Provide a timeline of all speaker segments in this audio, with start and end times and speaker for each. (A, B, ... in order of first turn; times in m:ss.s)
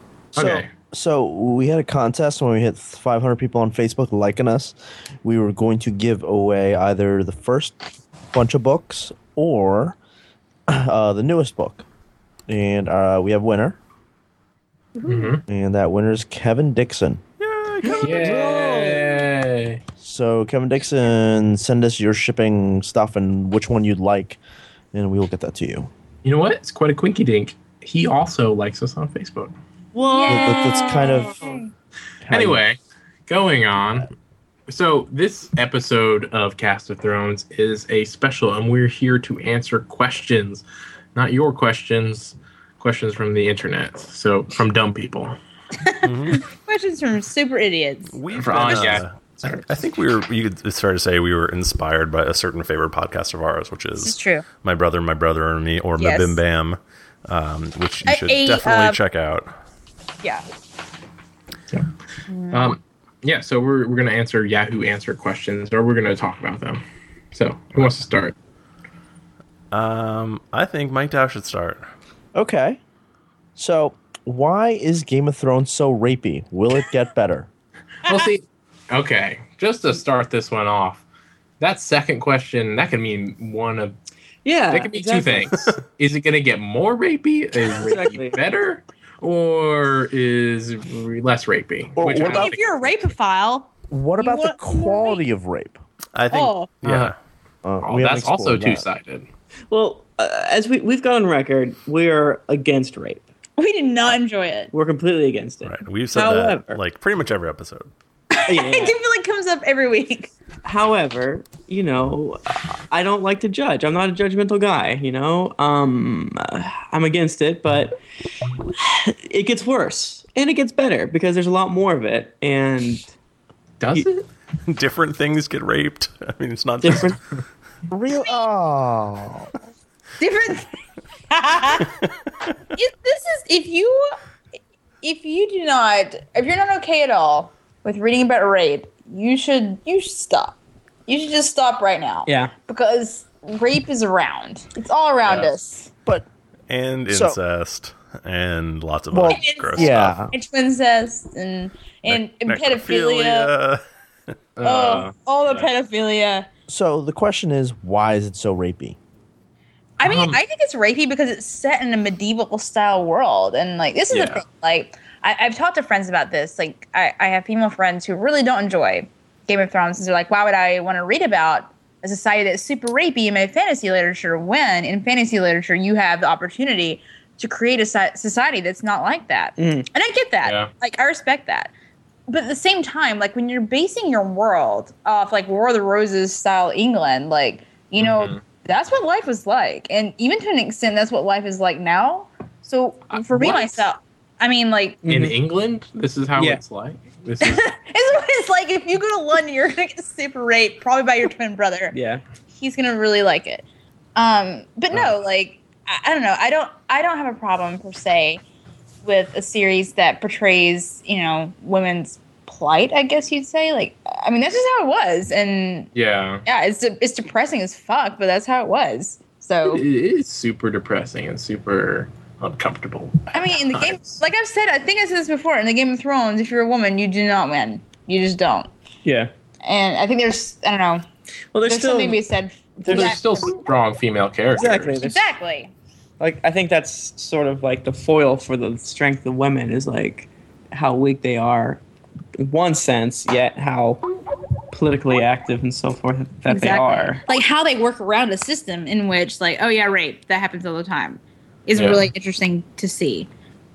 0:00.3-0:00.7 A
0:00.4-0:07.8 B
0:08.3-0:10.0 B
0:10.7-0:11.8 B
0:12.5-0:13.8 B
0:15.0-0:15.4 C
0:15.1-0:15.4 A
0:15.5-0:17.2 B
0:17.4-0:18.5 D
0:17.9-0:19.0 E
0:17.9-0:18.4 C
0:18.0-0:19.8 A
0:18.3-0:18.6 B
0:20.0-0:24.4 B
0:24.9-0:25.9 B
0:26.2-0:29.5 A
0:29.9-0:31.6 E
0:30.1-0:31.7 C
0:30.3-0:31.3 B
0:32.2-0:32.6 B
0:32.3-0:34.1 A
0:34.7-0:40.6 A
0:41.2-0:45.4 A
0:45.8-0:48.9 C
0:46.0-0:46.4 D
0:48.1-0:59.5 D
0:48.3-0:49.7 A
0:54.0-0:54.4 C
0:56.0-0:56.4 C
0:58.1-0:59.0 C
1:02.3-1:02.7 C
1:02.5-1:08.4 A
1:09.7-1:11.9 D
1:12.4-1:12.8 B
1:13.6-1:17.5 B
1:18.0-1:21.0 A
1:21.6-1:24.0 A
1:24.4-1:25.5 E
1:24.7-1:33.0 A
1:27.7-1:28.4 E
1:32.0-1:32.5 B
1:32.2-1:35.2 C
1:33.9-1:35.8 B
1:36.2-1:37.2 D
1:36.3-1:36.7 C
1:36.8-1:37.2 A
1:37.6-1:38.8 B
1:37.8-1:39.3 A
1:39.7-1:43.3 E
1:43.6-1:44.7 C
1:44.7-1:46.8 E
1:45.6-1:47.9 D
1:48.3-1:50.3 C
1:48.5-1:49.0 E
1:50.6-1:58.0 E
1:58.8-2:03.1 E
2:03.8-2:04.3 A
2:04.7-2:07.2 D
2:06.8-2:07.2 E
2:07.9-2:09.5 B
2:10.2-2:10.7 C
2:11.3-2:12.0 C
2:12.8-2:14.2 C
2:15.0-2:25.9 C
2:22.3-2:22.5 E
2:26.7-2:30.2 D
2:27.1-2:27.4 B
2:29.1-2:30.4 B
2:29.3-2:33.5 C
2:32.1-2:33.8 D
2:34.6-2:35.7 A
2:34.6-2:36.5 C
2:36.7-2:39.0 B
2:40.0-3:01.7 C
2:40.0-2:40.4 A
2:44.1-2:44.4 A
2:59.6-2:59.9 E
3:00.4-3:00.7 A
3:02.3-3:15.0 C
3:08.0-3:08.4 A
3:13.1-3:13.6 A
3:13.3-3:13.7 E
3:15.0-3:15.3 E
3:15.1-3:17.7 A
3:17.4-3:22.0 C
3:21.9-3:22.2 E
3:22.5-3:23.6 C
3:24.2-3:28.4 C
3:29.0-3:35.9 C
3:36.0-3:36.4 A
3:36.4-3:39.8 C
3:39.6-3:44.2 A
3:43.3-3:48.7 C
3:49.0-3:49.3 E
3:49.6-3:51.0 C
3:51.5-3:52.2 E
3:51.7-3:53.4 C
3:52.8-3:53.2 E
3:52.9-3:55.0 A
3:54.5-3:55.2 E
3:55.0-3:55.7 C
3:56.2-4:01.8 E
4:02.4-4:04.0 E
4:04.7-4:07.2 E
4:06.5-4:13.3 C
4:11.8-4:12.1 A